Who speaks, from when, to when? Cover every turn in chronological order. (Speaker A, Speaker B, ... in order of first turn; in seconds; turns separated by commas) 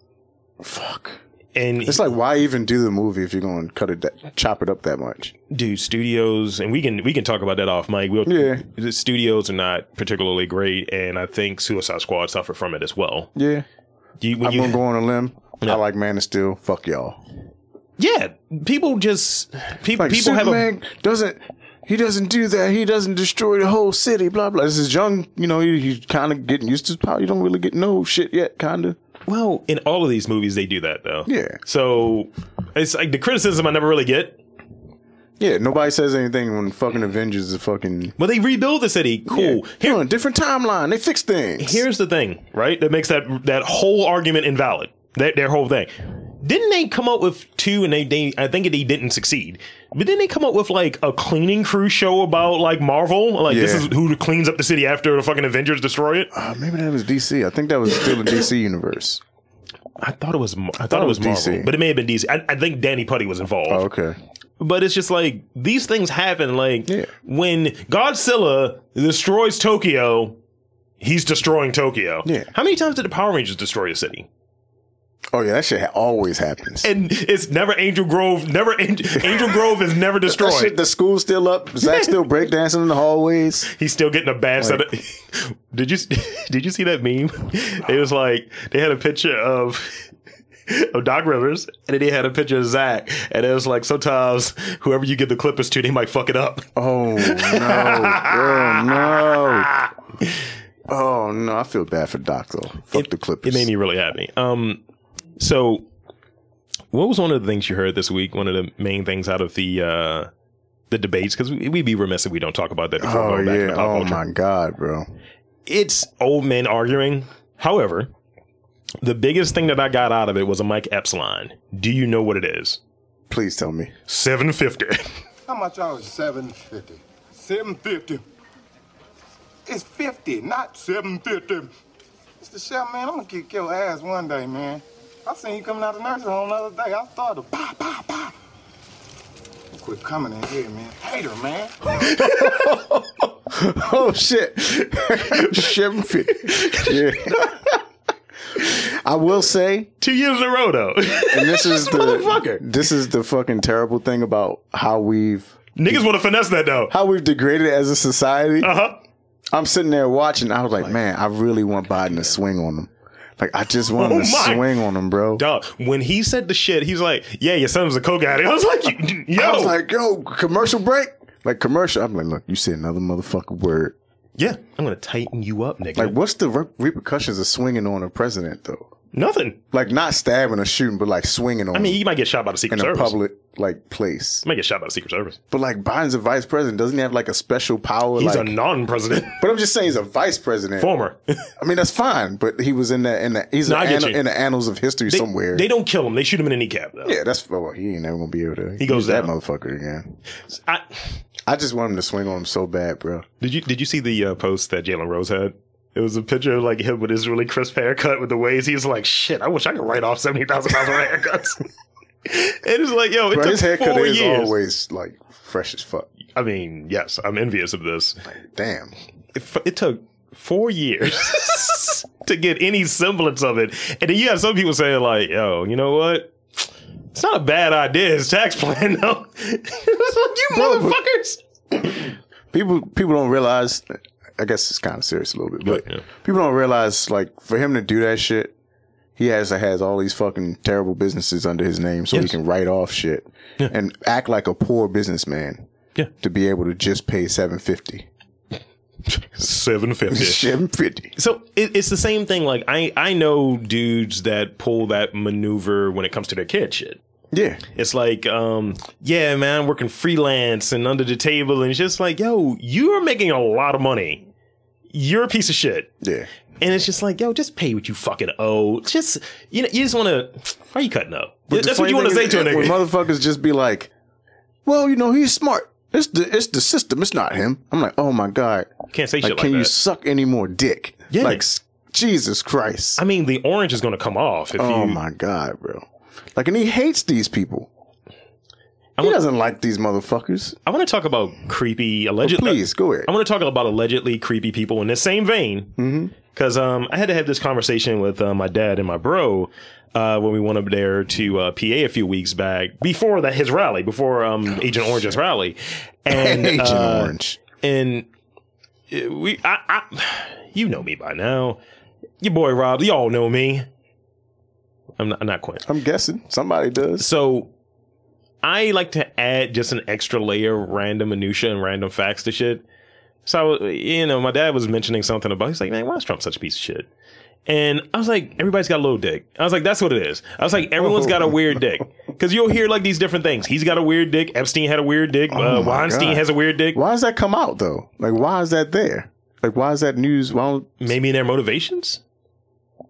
Speaker A: 0.6-1.2, Speaker B: 1.5-2.1, Speaker A: 1.8-5.3, Speaker B: 5.5-13.3, Speaker A: 8.2-8.6, Speaker A: 13.3-13.7, Speaker B: 14.2-14.8, Speaker A: 14.4-17.2, Speaker B: 18.0-20.7, Speaker A: 19.9-29.0, Speaker B: 29.3-34.4, Speaker A: 31.3-31.6, Speaker A: 35.4-38.1, Speaker B: 38.2-40.0, Speaker A: 39.3-41.8, Speaker B: 41.6-56.3, Speaker A: 53.5-53.9, Speaker A: 56.3-59.2, Speaker B: 60.0-63.9, Speaker A: 60.8-61.7, Speaker A: 63.7-64.2, Speaker B: 64.6-70.4, Speaker B: 71.0-74.3, Speaker A: 75.3-76.9, Speaker B: 76.8-80.8, Speaker A: 79.2-79.5, Speaker A: 80.2-83.7, Speaker B: 81.8-82.2, Speaker B: 83.7-90.1, Speaker A: 84.6-84.8, Speaker B: 90.7-99.9, Speaker A: 96.8-99.7, Speaker A: 100.9-103.7, Speaker B: 102.9-104.8, Speaker B: 105.4-105.8, Speaker B: 106.9-110.3, Speaker B: 110.9-114.2, Speaker A: 113.0-115.1, Speaker B: 115.7-118.1, Speaker B: 119.0-122.8, Speaker A: 123.3-123.9, Speaker B: 124.1-125.1, Speaker C: 125.5-128.2, Speaker C: 129.7-131.7, Speaker C: 132.4-138.3, Speaker C: 139.7-142.1, Speaker B: 142.1-142.9, Speaker A: 142.2-147.8, Speaker B: 145.0-145.7, Speaker B: 146.2-147.5, Speaker A: 148.7-149.9, Speaker B: 150.0-152.6, Speaker A: 151.3-156.0, Speaker B: 155.8-156.9, Speaker A: 156.9-158.7, Speaker B: 158.6-159.0, Speaker A: 159.5-165.4, Speaker B: 163.9-164.7, Speaker B: 165.3-169.8, Speaker A: 169.3-173.9, Speaker B: 174.4-176.2, Speaker A: 175.9-178.9, Speaker B: 179.1-179.6, Speaker A: 179.7-182.0, Speaker B: 181.7-183.2, Speaker A: 182.7-184.4, Speaker B: 184.4-185.4, Speaker A: 185.5-188.5, Speaker B: 188.2-189.4, Speaker A: 189.3-190.9, Speaker B: 190.8-191.5, Speaker A: 191.6-195.7, Speaker B: 193.6-194.2, Speaker B: 195.1-197.2, Speaker A: 197.0-200.2, Speaker B: 198.8-199.3, Speaker B: 200.5-201.0, Speaker A: 201.5-203.2, Speaker B: 203.4-211.6, Speaker B: 212.2-214.6, Speaker A: 213.3-216.1, Speaker B: 216.3-218.2, Speaker A: 218.2-218.9, Speaker B: 219.3-226.3, Speaker B: 227.1-231.4, Speaker A: 230.5-231.0, Speaker A: 232.5-238.5, Speaker B: 235.6-236.0, Speaker A: 239.2-245.6, Speaker A: 246.2-248.1, Speaker B: 249.1-250.5, Speaker A: 250.1-251.1, Speaker B: 251.2-257.0, Speaker A: 257.3-257.6, Speaker B: 257.7-264.2, Speaker B: 264.9-265.9, Speaker A: 266.0-266.3, Speaker B: 266.6-272.8, Speaker A: 271.5-273.9, Speaker A: 274.6-283.0, Speaker B: 278.9-279.7, Speaker B: 281.1-281.4, Speaker B: 283.0-285.0, Speaker A: 284.6-285.8, Speaker A: 286.4-287.7, Speaker B: 289.0-289.2, Speaker A: 289.0-290.6, Speaker B: 290.6-308.1, Speaker A: 292.2-293.1, Speaker A: 295.8-296.1, Speaker A: 306.1-307.4, Speaker B: 308.9-311.6, Speaker B: 312.2-313.7, Speaker B: 315.0-315.7, Speaker A: 315.6-317.1, Speaker B: 317.0-317.5, Speaker B: 318.4-322.6, Speaker B: 323.2-326.9, Speaker B: 327.5-336.8, Speaker A: 330.8-331.6, Speaker A: 335.3-340.9, Speaker B: 340.8-342.0